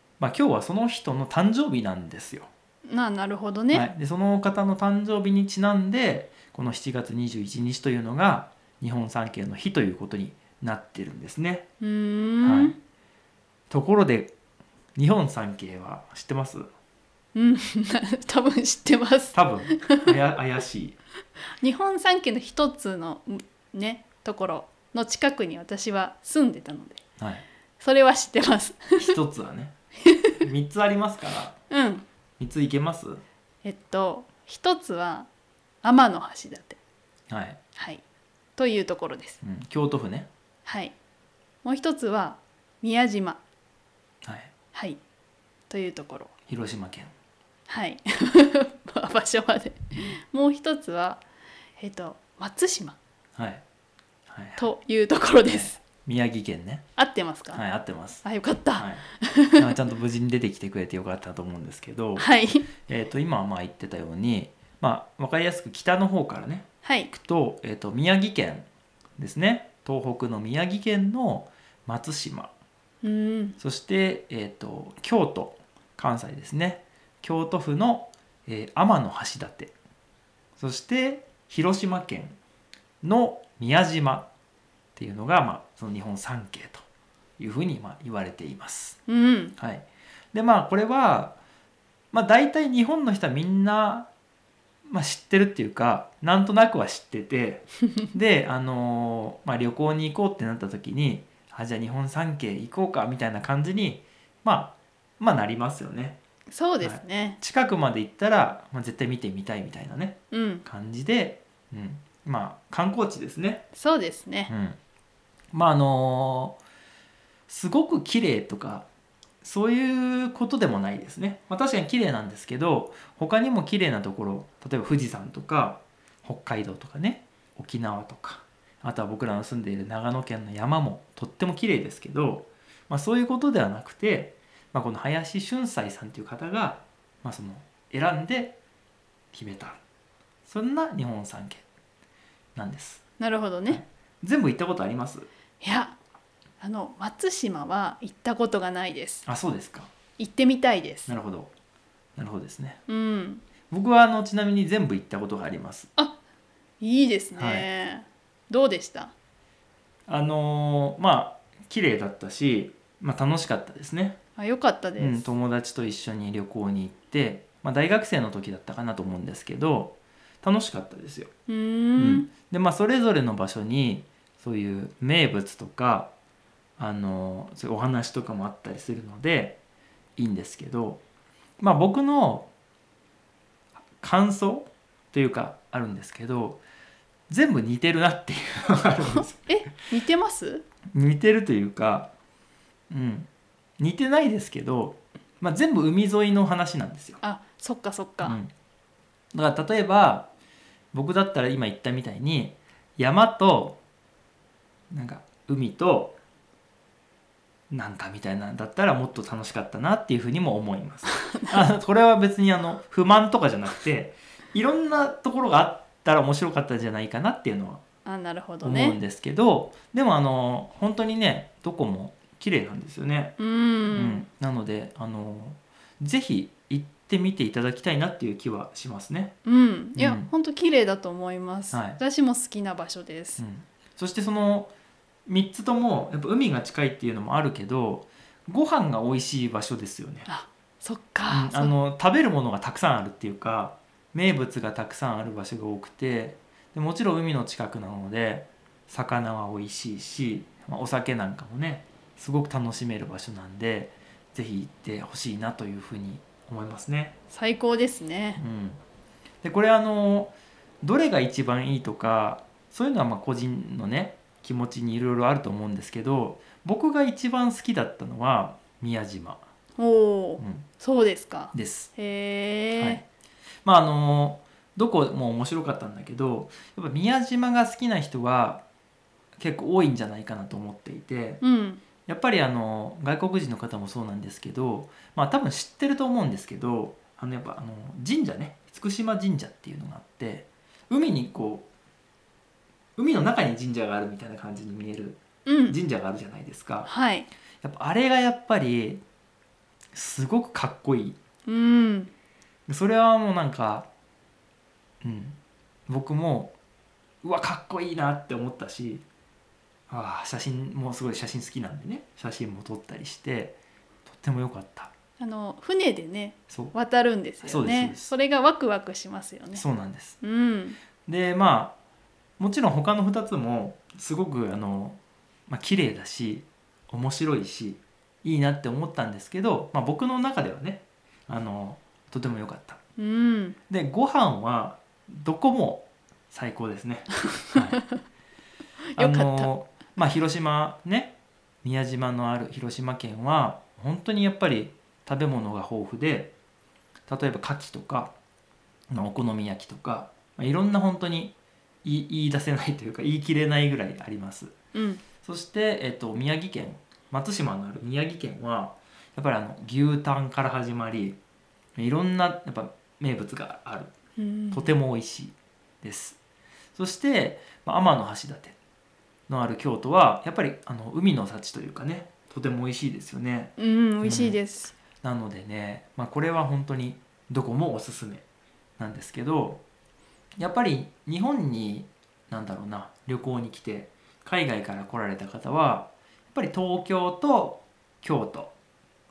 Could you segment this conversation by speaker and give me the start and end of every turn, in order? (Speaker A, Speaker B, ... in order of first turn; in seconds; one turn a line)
Speaker A: 0.2-2.5
Speaker B: 2.9-3.9
Speaker A: 3.7-11.7
Speaker B: 11.8-12.7
Speaker A: 12.4-12.8
Speaker A: 13.7-14.3
Speaker A: 14.9-16.7
Speaker B: 17.3-20.0
Speaker A: 19.3-21.0
Speaker B: 21.6-27.0
Speaker A: 27.2-27.4
Speaker B: 27.8-29.1
Speaker A: 28.9-29.7
Speaker B: 30.0-30.3
Speaker A: 30.4-31.6
Speaker B: 31.7-32.0
Speaker A: 32.4-33.2
Speaker B: 33.6-35.3
Speaker B: 35.8-36.8
Speaker A: 37.3-37.6
Speaker B: 37.8-38.0
Speaker B: 38.6-39.4
Speaker A: 39.4-40.3
Speaker B: 40.6-40.9
Speaker B: 41.6-43.4
Speaker A: 44.2-44.5
Speaker B: 44.7-45.0
Speaker B: 45.7-46.3
Speaker A: 46.5-47.1
Speaker B: 47.7-51.2
Speaker B: 51.8-53.0
Speaker A: 53.4-53.6
Speaker A: 54.3-54.7
Speaker B: 54.6-55.8
Speaker A: 55.4-56.8
Speaker B: 57.0-57.6
Speaker A: 57.5-58.2
Speaker B: 58.2-59.7
Speaker A: 58.8-59.0
Speaker A: 59.6-68.7
Speaker B: 62.1-62.7
Speaker B: 66.8-67.1
Speaker A: 69.2-72.5
Speaker B: 73.0-73.6
Speaker A: 73.6-79.7
Speaker A: 80.6-82.4
Speaker A: 83.0-84.3
Speaker A: 85.0-86.8
Speaker A: 87.4-89.0
Speaker B: 89.1-89.5
Speaker A: 89.6-91.4
Speaker A: 92.1-94.1
Speaker A: 94.9-106.2
Speaker B: 106.5-107.4
Speaker A: 106.8-113.7
Speaker B: 110.3-110.6
Speaker B: 113.7-114.5
Speaker A: 114.5-114.8
Speaker A: 115.5-116.6
Speaker A: 117.5-118.9
Speaker A: 119.4-138.6
Speaker A: 139.3-139.8
Speaker A: 140.4-141.6
Speaker A: 142.6-143.0
Speaker B: 143.2-143.8
Speaker A: 143.7-145.3
Speaker B: 145.6-146.0
Speaker B: 146.6-149.2
Speaker A: 149.2-149.9
Speaker B: 150.2-151.1
Speaker A: 151.1-151.5
Speaker A: 152.2-152.8
Speaker B: 152.9-153.4
Speaker A: 153.7-155.9
Speaker B: 156.8-159.1
Speaker A: 157.3-157.7
Speaker A: 160.1-164.2
Speaker B: 164.4-165.3
Speaker A: 165.0-171.3
Speaker B: 171.5-172.3
Speaker A: 172.0-176.1
Speaker A: 176.8-179.6
Speaker A: 180.2-181.0
Speaker A: 181.6-182.5
Speaker A: 184.0-186.6
Speaker A: 187.3-189.5
Speaker B: 189.1-190.6
Speaker A: 190.9-192.1
Speaker A: 192.9-197.2
Speaker B: 197.2-198.4
Speaker A: 198.2-198.5
Speaker A: 199.3-200.3
Speaker A: 200.9-203.8
Speaker A: 204.9-206.2
Speaker A: 207.7-217.8
Speaker B: 218.0-219.0
Speaker A: 218.6-223.4
Speaker B: 223.4-224.2
Speaker A: 223.9-229.3
Speaker B: 229.4-233.4
Speaker A: 229.9-230.3
Speaker A: 231.7-232.0
Speaker A: 233.4-234.7
Speaker A: 235.3-240.3
Speaker B: 240.3-241.7
Speaker A: 241.3-257.2
Speaker B: 257.3-258.4
Speaker A: 258.4-258.8
Speaker A: 259.4-269.4
Speaker B: 269.8-273.0
Speaker A: 270.4-270.6
Speaker A: 271.5-271.9
Speaker A: 272.8-273.0
Speaker A: 273.6-278.6
Speaker A: 279.4-281.4
Speaker B: 281.4-281.8
Speaker A: 282.0-291.7
Speaker A: 293.0-296.9
Speaker B: 295.4-295.8
Speaker B: 296.8-297.3
Speaker A: 297.6-299.0
Speaker A: 299.9-301.2
Speaker B: 301.5-302.1
Speaker A: 302.7-303.9
Speaker A: 305.0-305.4
Speaker A: 305.9-306.5
Speaker A: 307.2-309.0
Speaker A: 309.9-314.9
Speaker B: 315.2-319.6
Speaker A: 316.5-316.7
Speaker A: 317.4-318.1
Speaker A: 319.5-320.2
Speaker B: 320.2-320.8
Speaker A: 321.0-321.8
Speaker A: 322.4-332.8
Speaker B: 333.0-333.6
Speaker A: 333.7-337.8
Speaker B: 337.5-338.0
Speaker B: 339.0-339.5
Speaker A: 339.0-346.3
Speaker A: 347.1-348.1
Speaker A: 348.9-354.5
Speaker B: 354.7-355.0
Speaker A: 355.2-361.2
Speaker A: 361.8-363.9
Speaker B: 364.2-364.7
Speaker A: 364.5-366.2
Speaker A: 366.8-368.6
Speaker A: 369.3-374.4
Speaker B: 373.6-374.8
Speaker A: 375.0-378.2
Speaker A: 378.8-379.6
Speaker A: 380.4-388.5